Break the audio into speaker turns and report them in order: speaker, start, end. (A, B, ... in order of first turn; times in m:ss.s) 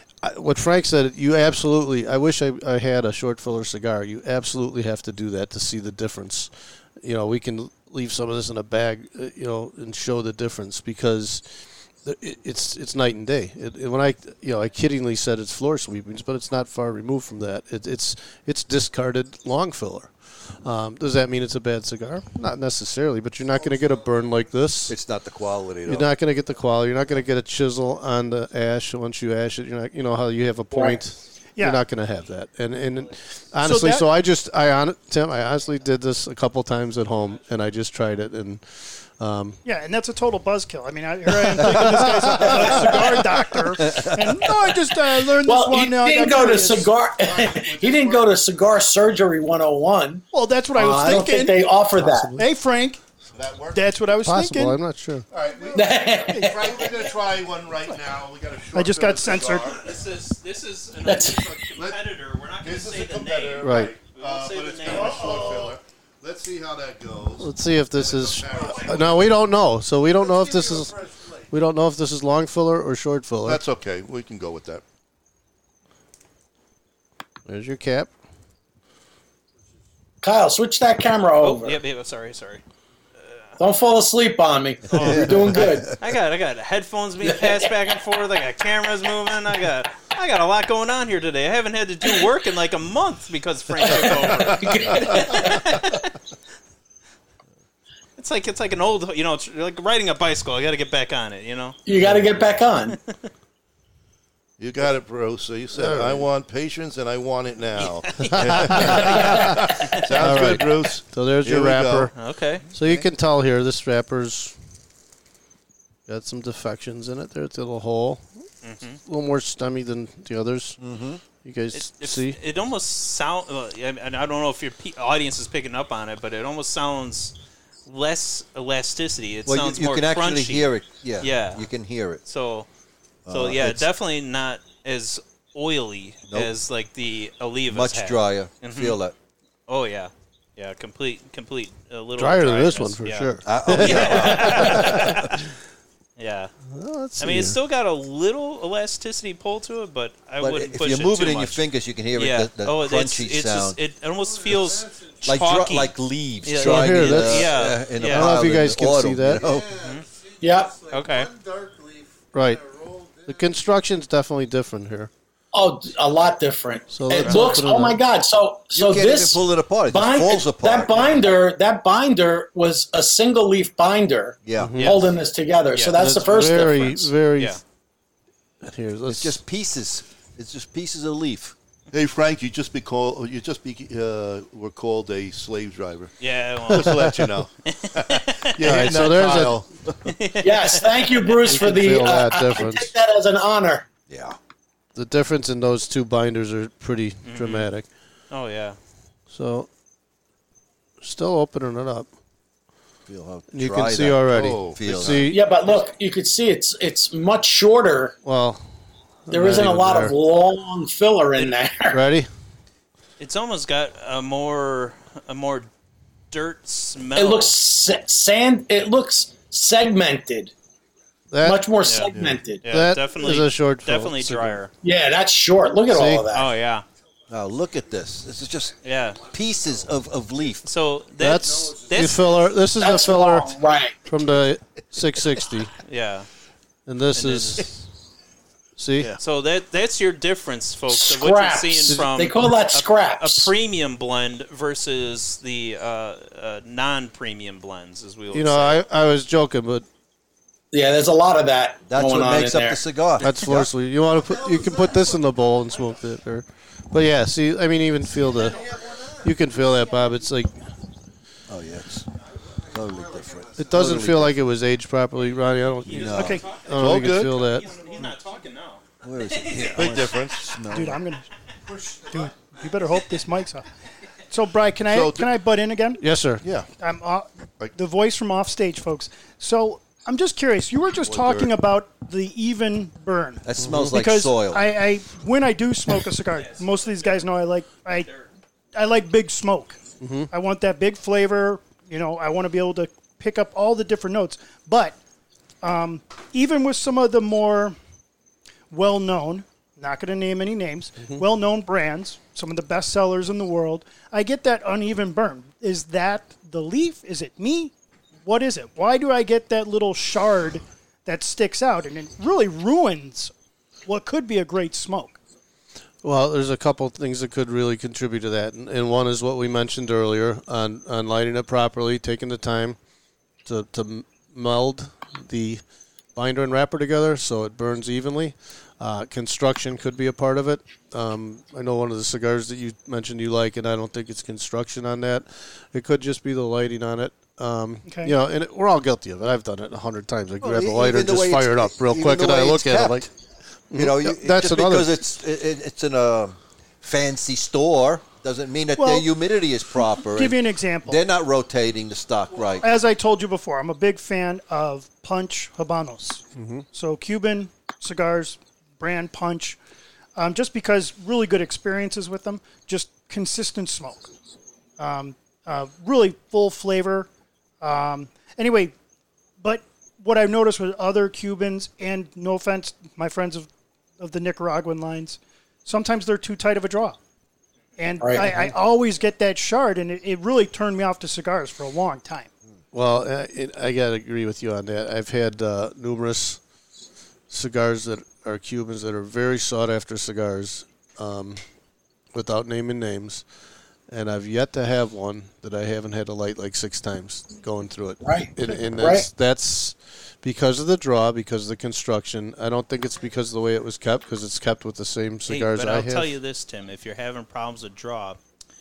0:00.2-0:06.5 A
0:07.0-0:11.5 A
0:12.0-0:25.0 A
0:24.9-0:26.1 B
0:25.9-0:39.6 A
0:30.7-0:31.0 C
0:31.6-0:31.8 D
0:33.6-0:34.1 D
0:39.6-0:46.9 D
0:41.7-0:42.6 A
0:43.8-0:44.3 B
0:45.4-0:52.3 C
0:47.2-0:48.3 E
0:50.3-0:51.7 D
0:52.0-0:52.5 A
0:52.4-0:53.0 D
0:53.3-0:54.0 E
0:53.7-0:54.8 D
0:54.2-0:55.3 A
0:55.3-0:59.8 E
0:55.7-0:56.7 C
0:58.7-0:59.7 D
0:59.7-1:05.6 F
1:01.0-1:01.5 C
1:01.7-1:02.0 E
1:02.6-1:09.3 E
1:03.6-1:03.9 A
1:05.3-1:05.7 D
1:07.4-1:13.6 A
1:13.4-1:14.8 E
1:17.5-1:18.1 A
1:20.2-1:21.8 C
1:21.4-1:22.6 F
1:23.2-1:23.5 F
1:23.6-1:25.9 C
1:24.9-1:36.0 F
1:25.0-1:25.7 B
1:27.2-1:27.7 C
1:33.8-1:35.6 C
1:38.2-1:41.8 F
1:41.9-1:43.0 C
1:44.6-1:52.1 E
1:45.8-1:46.2 A
1:47.8-1:50.1 F
1:48.3-1:49.6 A
1:50.2-1:52.1 A
1:52.2-1:52.6 F
1:52.7-1:54.6 A
1:52.8-1:53.1 B
1:56.1-1:58.2 A
1:58.6-1:59.0 F
1:59.0-2:00.8 A
2:00.8-2:01.2 B
2:01.4-2:02.4 A
2:01.7-2:07.4 F
2:07.9-2:11.7 F
2:09.5-2:12.2 B
2:12.2-2:12.7 F
2:13.3-2:13.8 B
2:13.3-2:19.0 F
2:17.7-2:19.2 B
2:19.7-2:25.4 F
2:22.2-2:25.2 A
2:23.4-2:25.3 B
2:26.2-2:26.5 F
2:26.7-2:27.6 A
2:27.2-2:38.4 F
2:30.4-2:33.8 B
2:35.2-2:39.8 B
2:36.6-2:39.4 A
2:39.8-2:40.1 F
2:40.4-2:40.9 C
2:40.9-2:41.3 F
2:42.3-2:45.1 A
2:45.5-2:57.1 C
2:46.9-2:48.0 A
2:47.1-2:47.6 F
2:48.7-2:51.3 B
2:54.4-2:54.9 B
2:54.6-2:54.9 A
2:54.8-2:55.1 F
2:55.7-2:56.8 F
2:56.0-2:57.6 A
2:58.6-2:59.4 A
2:59.1-3:01.5 B
3:01.9-3:09.9 E
3:06.2-3:07.1 F
3:07.7-3:08.6 F
3:08.6-3:09.6 A
3:10.0-3:11.5 F
3:10.4-3:13.9 C
3:11.4-3:12.9 A
3:14.1-3:14.4 B
3:15.0-3:17.9 A
3:17.3-3:17.7 F
3:18.3-3:18.8 F
3:19.3-3:19.7 A
3:21.0-3:22.1 A
3:23.1-3:25.3 B
3:23.5-3:25.5 A
3:24.3-3:25.3 E
3:25.3-3:28.2 C
3:28.2-3:28.6 A
3:29.3-3:30.2 A
3:29.3-3:32.0 C
3:31.9-3:32.3 A
3:33.2-3:35.7 F
3:36.3-3:37.6 F
3:37.2-3:40.5 C
3:41.3-3:41.6 A
3:41.4-3:42.6 C
3:41.8-3:44.7 F
3:42.1-3:42.4 E
3:42.7-3:44.6 A
3:44.8-3:46.6 C
3:45.9-3:46.2 A
3:46.3-3:46.8 F
3:47.3-3:50.7 B
3:48.8-3:49.2 F
3:50.6-3:52.2 F
3:51.2-3:53.5 A
3:52.8-3:54.0 C
3:54.0-3:55.7 A
3:55.9-3:56.3 F
3:56.9-3:57.7 A
3:57.2-3:57.8 F
3:58.8-3:59.1 A
3:59.0-4:08.8 F
4:00.9-4:03.5 C
4:08.3-4:09.9 A
4:10.7-4:12.8 C
4:11.9-4:13.7 B
4:13.2-4:20.6 A
4:21.5-4:22.1 B
4:22.7-4:24.4 B
4:23.6-4:27.7 A
4:25.4-4:29.8 F
4:26.0-4:26.4 B
4:26.1-4:26.4 D
4:26.7-4:27.4 E
4:29.0-4:31.0 B
4:29.7-4:30.6 E
4:30.7-4:31.3 D
4:32.0-4:33.7 D
4:34.3-4:36.0 D
4:34.9-4:35.3 E
4:36.0-4:36.4 A
4:36.4-4:36.7 E
4:36.8-4:48.1 D
4:41.0-4:41.5 E
4:43.4-4:44.7 B
4:43.6-4:44.0 A
4:46.4-4:47.2 F
4:47.8-4:48.2 F
4:48.7-4:49.8 D
4:50.0-4:50.3 A
4:50.3-4:55.0 D
4:55.6-4:57.8 D
4:58.7-5:07.7 D
5:08.2-5:13.3 D
5:13.9-5:15.2 D
5:16.0-5:22.8 A
5:23.5-5:25.6 A
5:26.2-5:43.1 A
5:37.8-5:38.1 D
5:40.4-5:43.1 B
5:43.7-5:44.9 A
5:43.7-5:52.7 B
5:48.8-5:49.1 D
5:50.2-5:51.0 D
5:52.6-5:59.6 D
5:56.4-5:56.6 A
6:00.2-6:04.1 D
6:04.8-6:07.1 D
6:07.6-6:08.7 D
6:09.4-6:13.5 D
6:14.0-6:17.0 D
6:17.8-6:22.3 D
6:18.0-6:18.4 C
6:22.7-6:26.4 A
6:27.3-6:31.4 A
6:32.1-6:33.2 A
6:33.9-6:46.1 A
6:38.0-6:39.1 C
6:45.3-6:48.2 F